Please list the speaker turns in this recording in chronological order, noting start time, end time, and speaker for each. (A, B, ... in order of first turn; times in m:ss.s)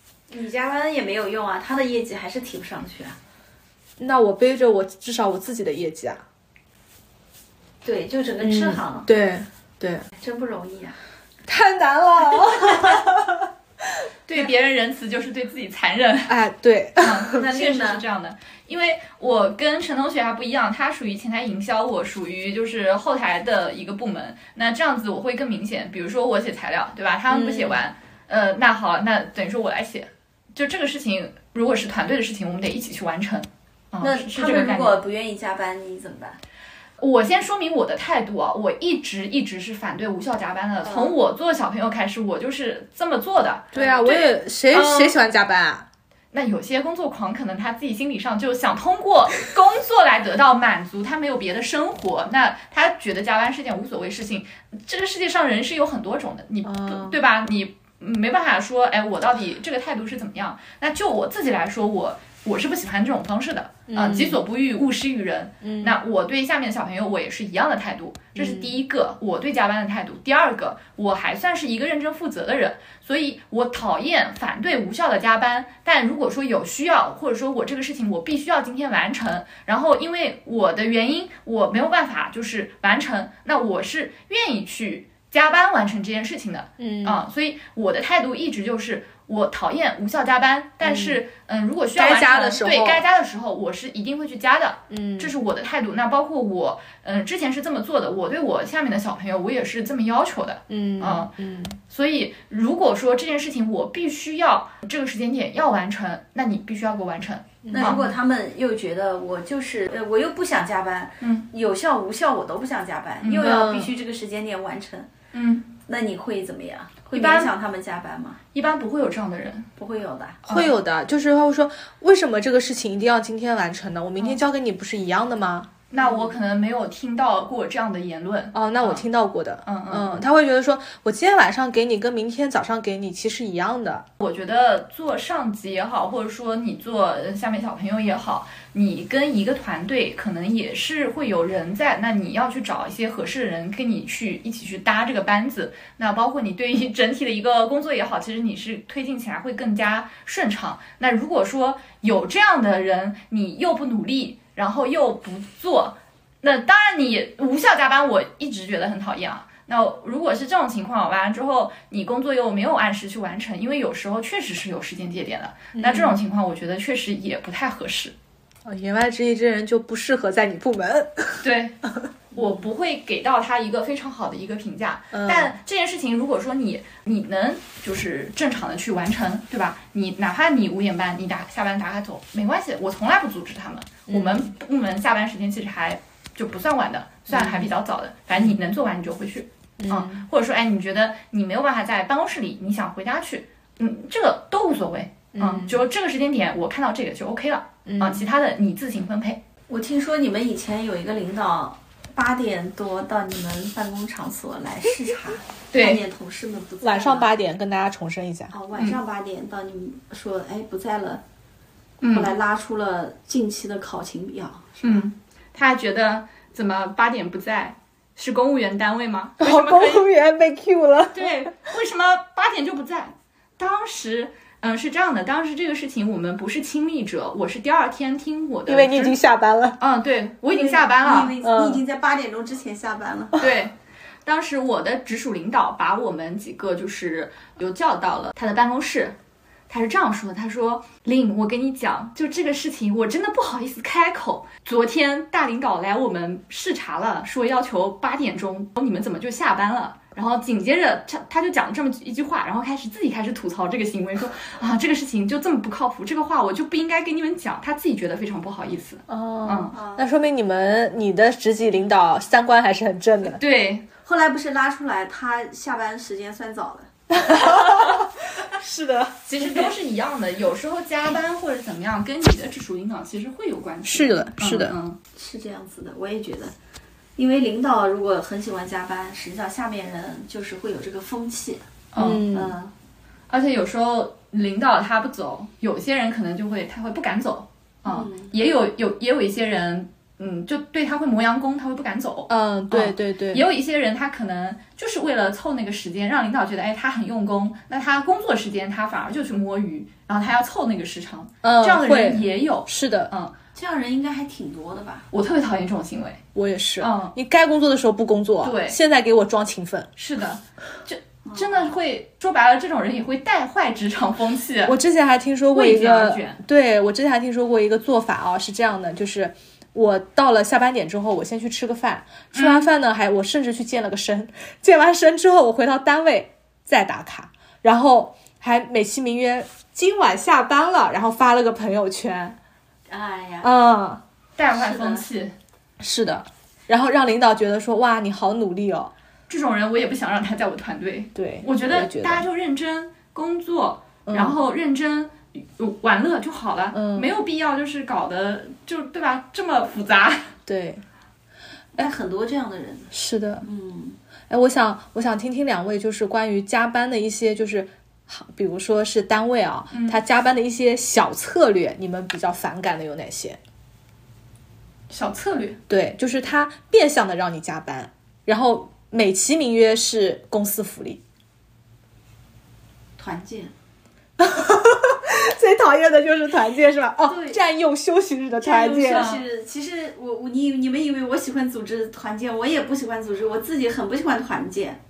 0:00.3-0:03.2 A
0:04.0-0:06.2 B
0:07.8-0:09.1 A
0:08.4-0:10.1 B
0:10.2-0:11.0 A
0:11.5-0:14.0 B
0:12.7-0:13.0 A
0:14.3-0:16.4 C
0:16.3-0:17.5 B
0:17.0-0:35.0 C
0:17.4-0:18.0 A
0:27.3-0:27.8 B
0:34.0-0:36.4 A
0:37.0-0:45.2 C
0:40.8-0:41.2 A
0:43.7-0:45.9 B
0:46.3-1:41.3 C
0:56.6-0:57.2 B
1:03.9-1:04.4 B
1:05.6-1:06.0 B
1:08.4-1:08.8 B
1:26.8-1:27.2 B
1:30.8-1:31.2 B
1:32.0-1:33.0 B
1:34.9-1:35.3 B
1:40.7-1:41.8 B
1:41.9-1:48.1 C
1:47.6-1:48.0 B
1:47.7-1:55.1 A
1:53.2-1:53.6 C
1:53.4-1:53.9 B
1:55.3-1:55.7 C
1:55.9-1:58.4 A
1:57.1-1:57.5 C
1:58.5-1:59.7 C
1:59.8-2:00.4 A
2:00.5-2:00.8 C
2:00.5-2:05.7 B
2:05.9-2:09.1 C
2:08.5-2:14.1 B
2:09.6-2:10.2 C
2:14.2-2:48.1 C
2:45.8-2:46.2 B
2:48.6-2:51.4 B
2:51.4-2:51.8 C
2:52.3-3:19.4 C
2:55.1-2:55.6 B
3:04.1-3:04.4 B
3:07.3-3:07.7 B
3:09.8-3:10.2 B
3:15.3-3:15.8 B
3:17.9-3:18.3 B
3:19.7-3:27.3 A
3:25.7-3:26.0 C
3:26.8-3:28.5 B
3:28.5-3:31.2 A
3:32.0-3:32.3 C
3:32.1-3:35.1 A
3:34.8-3:40.1 C
3:39.4-3:41.5 B
3:41.1-3:49.2 C
3:48.7-3:49.8 B
3:49.8-3:51.4 C
3:50.6-3:53.4 A
3:51.4-3:51.8 B
3:53.4-3:53.7 C
3:54.2-3:59.2 C
3:59.7-4:19.7 C
4:19.1-4:23.4 B
4:19.7-4:20.1 A
4:23.2-4:23.9 C
4:24.0-4:26.9 A
4:27.1-4:29.7 B
4:27.5-4:27.9 C
4:29.3-4:35.0 C
4:33.8-4:34.8 B
4:35.2-4:36.5 A
4:37.2-4:41.6 A
4:41.9-4:42.3 C
4:42.0-4:42.5 B
4:42.3-4:42.7 A
4:43.3-5:03.3 C
4:47.9-4:48.3 A
4:52.3-4:53.5 B
5:01.4-5:03.1 B
5:03.5-5:05.1 A
5:05.1-5:06.2 C
5:06.4-5:09.9 B
5:06.8-5:07.2 C
5:08.4-5:08.8 C
5:10.0-5:14.8 C
5:11.2-5:11.7 A
5:14.6-5:32.4 B
5:15.5-5:16.4 C
5:22.3-5:22.7 C
5:32.9-5:33.5 A
5:33.4-5:34.0 B
5:34.4-5:35.3 C
5:34.5-5:35.0 A
5:35.8-5:38.9 B
5:39.3-5:50.3 C
5:41.2-5:42.3 B
5:44.1-5:44.4 B
5:46.7-5:47.1 B
5:50.5-5:50.8 B
5:51.8-5:54.0 A
5:52.9-5:53.4 B
5:54.3-6:03.4 B
5:59.7-6:00.0 C
6:04.9-6:05.6 C
6:05.7-6:11.0 B
6:13.0-6:13.5 A
6:14.2-6:19.2 B
6:17.0-6:17.4 A
6:18.4-6:24.8 A
6:18.9-6:19.2 C